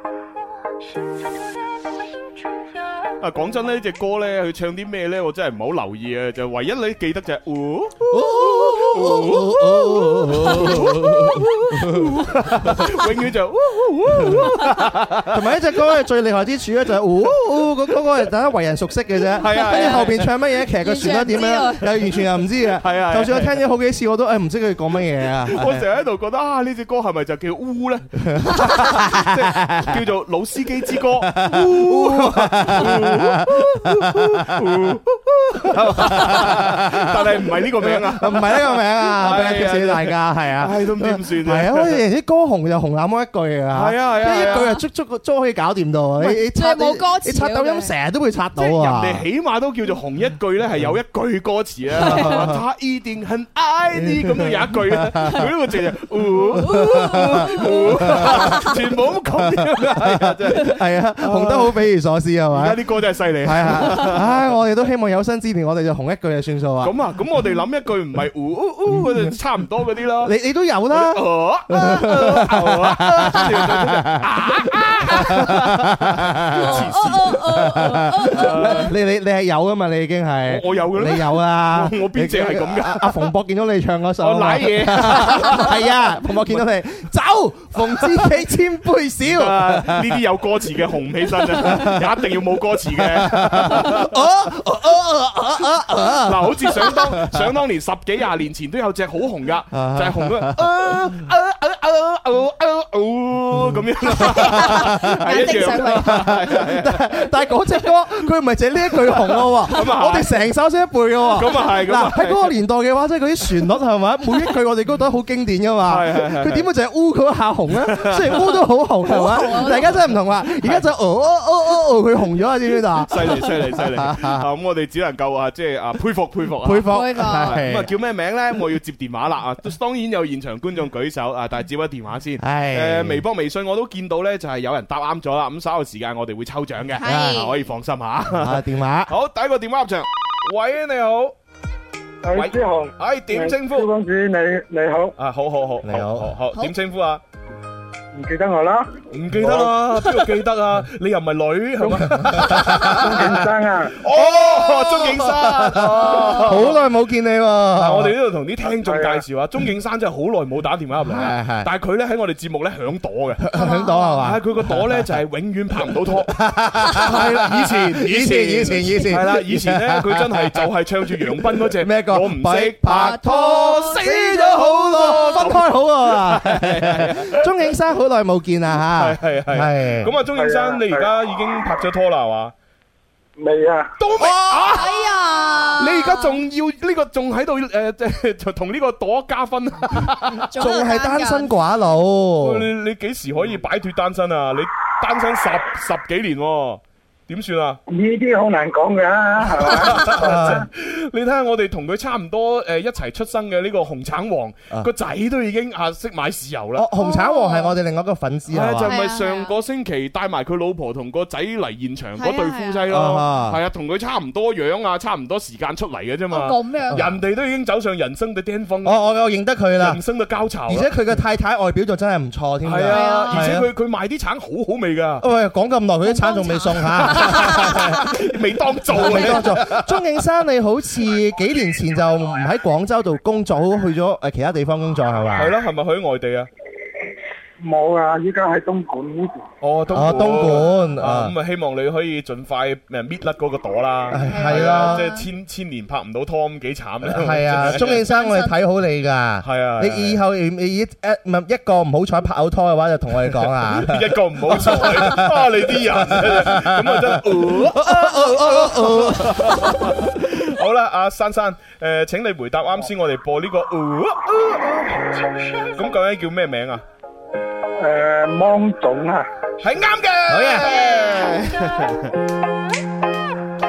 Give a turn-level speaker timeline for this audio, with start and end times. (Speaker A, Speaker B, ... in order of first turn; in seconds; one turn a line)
Speaker A: 0.8-3.2
Speaker B: 3.2-15.5
Speaker C: 8.1-12.9
Speaker C: 14.2-14.6
Speaker C: 15.3-25.9
Speaker B: 19.4-20.3
Speaker D: 19.4-22.0
Speaker B: 22.8-23.6
Speaker B: 25.5-42.0
Speaker C: 28.2-30.0
Speaker C: 31.2-34.8
Speaker C: 35.7-49.2
Speaker B: 43.7-44.7
Speaker D: 44.2-44.8
Speaker D: 46.2-47.9
Speaker B: 48.6-61.8
Speaker D: 52.0-52.5
Speaker C: 52.0-52.6
Speaker C: 53.9-55.5
Speaker C: 56.5-58.8
Speaker D: 56.6-58.7
Speaker C: 59.3-62.8
Speaker B: 62.5-64.3
Speaker C: 63.4-66.9
Speaker B: 66.8-70.3
Speaker C: 68.9-69.3
Speaker C: 70.2-90.2
Speaker B: 70.9-77.4
Speaker D: 76.6-78.9
Speaker B: 78.3-78.9
Speaker B: 80.5-83.3
Speaker B: 84.2-86.6
Speaker B: 89.3-94.2
Speaker C: 91.5-92.2
Speaker C: 92.9-97.4
Speaker B: 96.2-107.3
Speaker C: 99.7-100.6
Speaker C: 103.6-124.5
Speaker D: 104.1-106.3
Speaker B: 109.0-110.3
Speaker B: 111.3-112.5
Speaker B: 115.9-116.7
Speaker B: 117.8-118.3
Speaker D: 119.1-119.9
Speaker B: 123.1-141.3
Speaker C: 126.6-127.9
Speaker D: 126.9-127.6
Speaker C: 132.4-133.2
Speaker D: 137.0-137.6
Speaker C: 137.0-137.4
Speaker C: 138.4-139.1
Speaker E: 142.2-145.2
Speaker B: 142.3-143.9
Speaker B: 145.2-147.2
Speaker C: 145.8-146.3
Speaker E: 148.1-149.7
Speaker B: 149.1-153.4
Speaker C: 152.1-153.1
Speaker E: 153.0-154.0
Speaker B: 154.0-156.8
Speaker C: 154.1-158.1
Speaker D: 155.7-156.7
Speaker B: 157.8-163.4
Speaker E: 158.8-159.2
Speaker C: 161.0-161.7
Speaker C: 163.4-165.1
Speaker D: 163.5-164.2
Speaker B: 164.2-166.4
Speaker C: 166.3-170.7
Speaker B: 166.9-177.5
Speaker C: 171.2-180.1
Speaker D: 172.9-174.0
Speaker B: 178.9-182.5
Speaker E: 180.3-181.1
Speaker E: 183.4-183.9
Speaker B: 184.0-185.0
Speaker D: 184.2-186.4
Speaker B: 185.8-190.5
Speaker D: 190.3-191.5
Speaker C: 190.6-192.7
Speaker B: 192.4-197.8
Speaker E: 197.9-200.6
Speaker B: 199.7-206.9
Speaker C: 200.1-200.7
Speaker C: 206.8-208.9
Speaker D: 207.0-207.7
Speaker B: 208.5-219.0
Speaker D: 208.8-209.6
Speaker D: 212.2-212.8
Speaker C: 212.9-213.6
Speaker D: 216.3-217.2
Speaker C: 218.8-220.0
Speaker B: 219.8-220.9
Speaker C: 220.7-223.7
Speaker B: 222.6-225.2
Speaker D: 222.9-223.5
Speaker C: 225.2-228.2
Speaker D: 226.1-228.0
Speaker B: 227.0-229.9
Speaker C: 228.9-235.5
Speaker B: 235.3-236.5
Speaker E: 237.6-239.4
Speaker B: 239.6-248.0
Speaker C: 239.9-241.3
Speaker C: 244.1-245.1
Speaker D: 244.3-245.3
Speaker C: 247.0-259.9
Speaker D: 248.0-248.6
Speaker B: 249.4-250.2
Speaker B: 253.7-265.0
Speaker A: 265.3-265.7
Speaker B: 265.8-266.8
Speaker E: 267.8-269.2
Speaker B: 269.6-272.1
Speaker C: 270.3-270.9